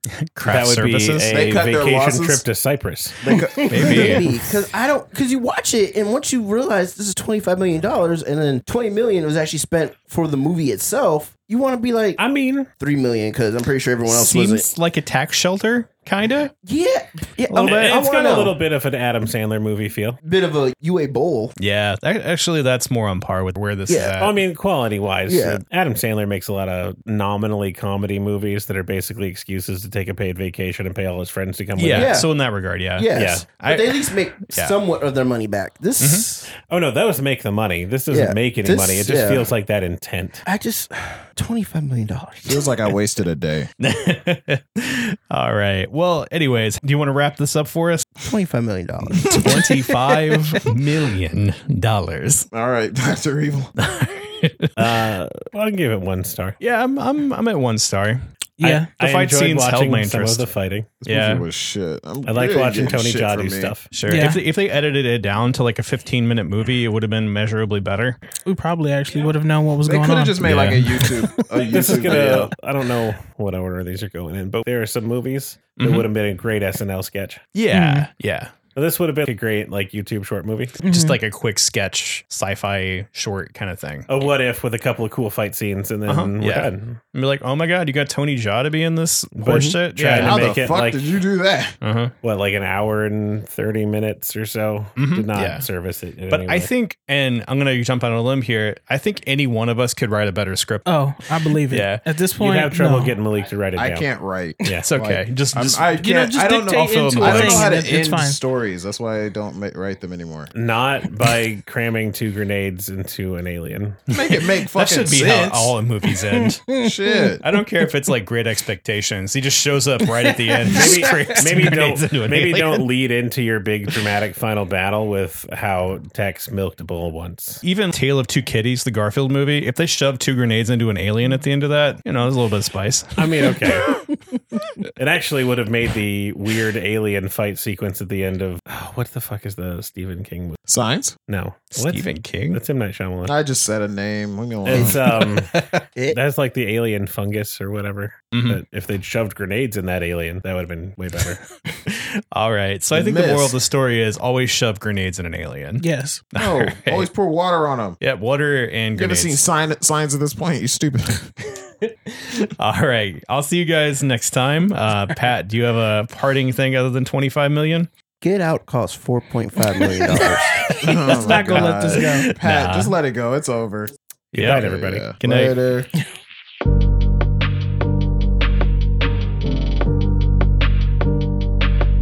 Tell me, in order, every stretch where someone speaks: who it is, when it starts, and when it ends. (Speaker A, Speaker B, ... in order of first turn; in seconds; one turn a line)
Speaker A: 0.3-1.3
Speaker B: 0.4-3.1
Speaker C: 1.2-2.4
Speaker C: 3.2-4.2
Speaker D: 3.3-12.2
Speaker A: 3.7-4.3
Speaker B: 12.2-12.7
Speaker D: 12.8-14.7
Speaker A: 14.1-16.5
Speaker D: 16.6-18.6
Speaker A: 17.5-18.0
Speaker B: 17.5-20.2
Speaker D: 20.2-21.5
Speaker A: 21.6-24.4
Speaker D: 23.9-24.1
Speaker B: 24.2-32.2
Speaker D: 25.3-25.6
Speaker A: 31.8-34.8
Speaker D: 31.9-32.3
Speaker D: 33.0-36.5
Speaker B: 33.1-33.5
Speaker A: 36.0-36.3
Speaker B: 36.7-40.4
Speaker D: 38.1-39.5
Speaker D: 40.4-42.8
Speaker C: 42.5-43.7
Speaker A: 43.8-48.1
Speaker D: 48.2-49.6
Speaker A: 49.3-52.5
Speaker C: 49.3-49.6
Speaker C: 52.5-53.7
Speaker A: 53.8-54.8
Speaker B: 54.8-56.6
Speaker A: 56.6-58.2
Speaker E: 58.6-58.9
Speaker B: 58.6-60.9
Speaker A: 58.9-60.5
Speaker C: 61.0-63.7
Speaker A: 61.0-61.4
Speaker B: 62.2-63.9
Speaker A: 63.9-68.2
Speaker E: 64.1-64.4
Speaker E: 68.4-70.5
Speaker C: 69.8-72.5
Speaker A: 70.4-71.2
Speaker B: 71.6-77.4
Speaker A: 75.8-76.1
Speaker A: 77.5-78.5
Speaker E: 77.7-78.1
Speaker B: 78.7-80.8
Speaker A: 80.8-84.1
Speaker E: 80.8-81.2
Speaker B: 84.1-87.0
Speaker A: 86.1-90.7
Speaker B: 89.3-91.2
Speaker C: 90.2-91.7
Speaker A: 91.8-92.1
Speaker B: 92.2-96.7
Speaker A: 95.0-95.7
Speaker A: 96.3-100.9
Speaker E: 100.8-103.1
Speaker A: 101.7-102.0
Speaker B: 102.4-104.1
Speaker C: 103.7-110.5
Speaker A: 104.8-105.9
Speaker E: 106.0-108.4
Speaker A: 106.9-107.8
Speaker B: 110.5-114.0
Speaker C: 114.1-115.7
Speaker A: 114.1-116.6
Speaker E: 116.1-117.6
Speaker C: 116.8-117.4
Speaker A: 117.4-122.8
Speaker E: 120.2-121.0
Speaker B: 120.7-127.6
Speaker A: 127.6-133.3
Speaker B: 133.2-134.0
Speaker B: 134.9-140.6
Speaker C: 140.7-141.1
Speaker B: 141.3-143.3
Speaker A: 141.7-142.6
Speaker C: 143.2-145.0
Speaker B: 144.7-151.4
Speaker A: 148.3-148.6
Speaker A: 151.9-157.1
Speaker C: 152.9-153.6
Speaker E: 155.8-156.2
Speaker C: 156.4-158.0
Speaker A: 158.0-159.4
Speaker C: 158.9-161.3
Speaker A: 162.1-167.9
Speaker D: 168.2-170.8
Speaker A: 170.2-172.9
Speaker C: 170.8-175.9
Speaker E: 171.0-172.3
Speaker B: 174.3-175.1
Speaker A: 174.3-175.6